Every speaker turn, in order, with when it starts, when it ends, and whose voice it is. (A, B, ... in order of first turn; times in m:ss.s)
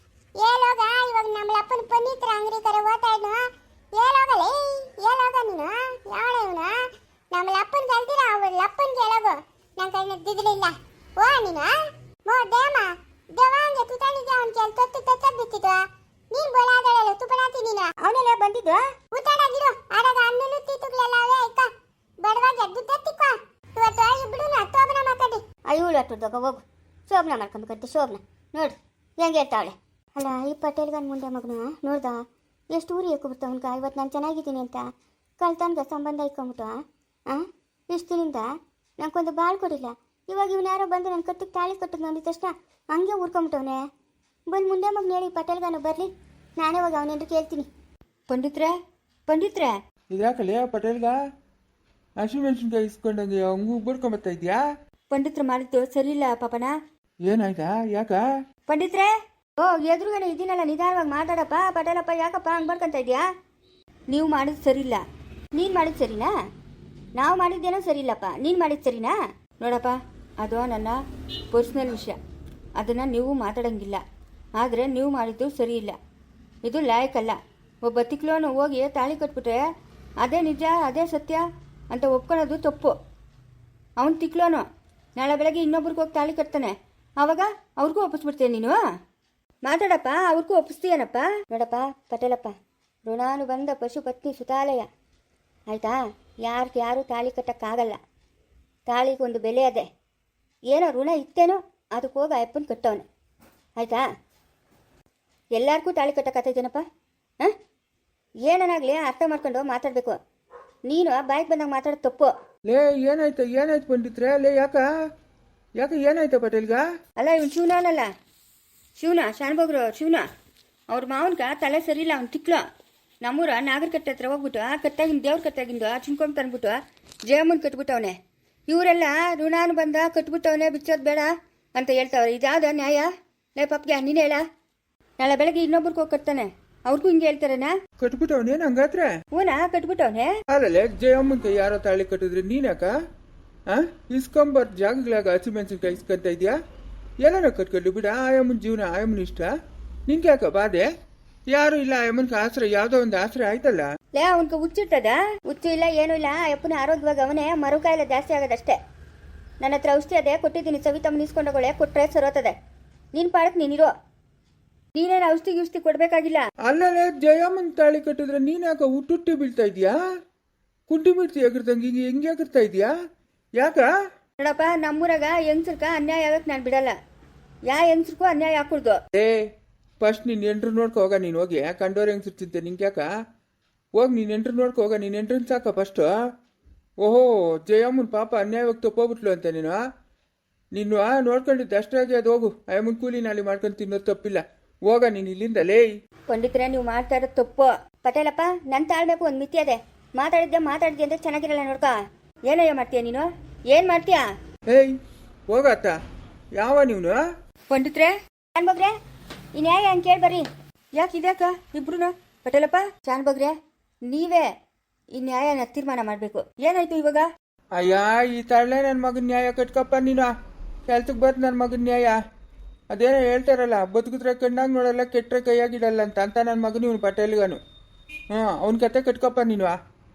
0:00.4-0:03.4 A
0:03.9-0:06.8 A
0:07.3-0:17.9 A
0:18.0-0:18.8 B
0:19.1-0:25.4 A
0:25.7-0:32.2 B
0:32.7-0:34.9 B
0:35.4-0:36.7 B
0:37.3-0:43.8 B
0:44.5-0:47.7 B
0:48.3-0:48.7 C
0:49.3-0:49.8 C
0:50.1-0:51.2 D
0:52.2-0:54.6 D
0:55.1-0:56.8 C
0:57.3-0:58.2 D
0:58.7-1:03.3 C
1:04.1-1:05.0 C
1:05.5-1:06.3 C
1:07.2-1:11.0 C
1:11.5-1:12.2 C
1:12.8-1:14.0 C
1:14.6-1:16.0 C
1:16.6-1:19.6 C
1:20.2-1:22.9 C
1:24.0-1:24.6 C
1:25.2-1:28.8 C
1:29.6-1:32.5 C
1:33.1-1:34.9 C
1:35.7-1:38.0 C
1:38.9-1:39.9 C
1:40.7-1:43.0 C
1:45.6-1:46.8 C
1:48.5-1:50.2 C
1:50.9-1:52.3 C
1:52.7-1:54.8 D
1:55.8-1:56.8 D
1:57.2-1:58.1 C
1:59.0-2:00.3 C
2:00.9-2:02.6 C
2:03.2-2:08.2 C
2:08.7-2:14.4 C
2:15.2-2:17.8 C
2:18.0-2:19.1 D
2:19.3-2:20.3 C
2:20.5-2:22.9 D
2:23.7-2:26.6 D
2:27.2-2:29.5 D
2:30.1-2:30.9 D
2:31.5-2:33.9 D
2:34.1-2:38.8 C
2:39.6-2:42.6 C
2:43.1-2:43.9 C
2:45.0-2:46.4 C
2:46.6-2:49.9 D
2:50.9-2:52.9 D
2:53.6-2:53.9 D
2:54.4-2:57.0 C
2:57.7-2:59.0 C
2:59.1-3:03.0 D
3:04.0-3:06.1 D
3:07.0-3:09.8 D
3:10.8-3:15.9 D
3:16.3-3:21.9 C
3:22.5-3:24.2 C
3:24.7-3:25.0 D
3:25.5-3:26.0 D
3:26.6-3:27.2 D
3:27.7-3:28.9 C
3:29.6-3:33.5 C
3:34.1-3:34.5 C
3:35.1-3:37.3 C
3:37.7-3:40.3 D
3:40.9-3:42.2 D
3:42.9-3:47.6 D
3:48.3-3:49.8 D